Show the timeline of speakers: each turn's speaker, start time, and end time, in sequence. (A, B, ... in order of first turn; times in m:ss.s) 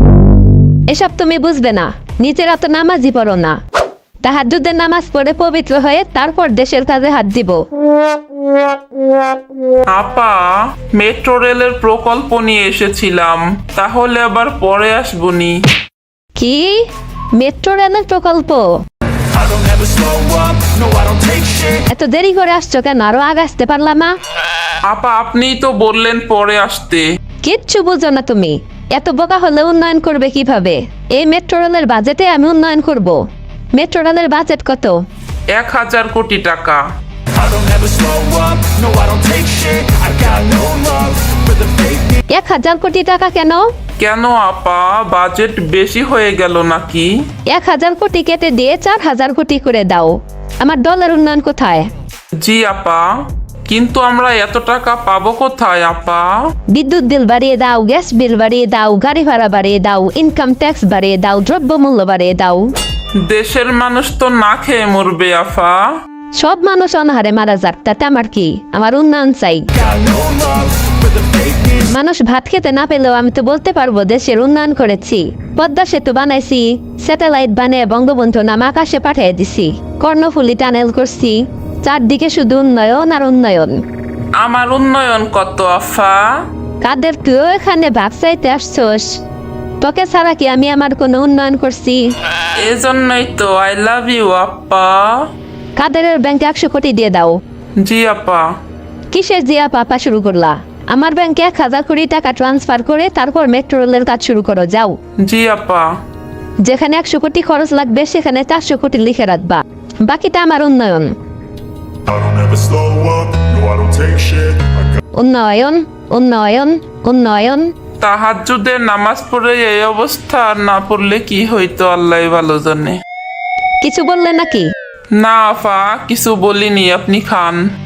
0:00.9-0:03.6 A
0:04.2-0:07.6 A
0:09.9-0:15.6 B
0:16.4-0:18.8 A
0:19.3-0:21.8 C
0:21.9-0:24.2 A
0:24.9-0:27.0 B
0:27.4-0:35.0 A
0:35.5-0:36.8 B
0:37.3-0:42.2 C
0:42.3-0:43.7 A
0:44.0-0:47.1 B
0:47.5-0:51.9 A
0:52.4-0:53.1 B
0:53.7-0:56.4 B
0:56.7-1:02.7 A
1:03.3-1:05.9 B
1:06.4-1:09.8 A
1:09.8-1:11.8 C
1:11.8-1:23.8 A
1:24.4-1:26.4 B
1:26.8-1:29.2 A
1:29.8-1:32.1 A
1:32.5-1:35.2 B
1:35.8-1:37.4 A
1:37.8-1:38.5 B
1:39.1-1:45.0 A
1:45.2-1:45.9 B
1:46.6-1:51.2 A
1:52.1-1:54.9 C
1:55.2-1:57.7 A
1:58.0-2:03.0 B
2:03.8-2:04.7 A
2:05.1-2:07.6 B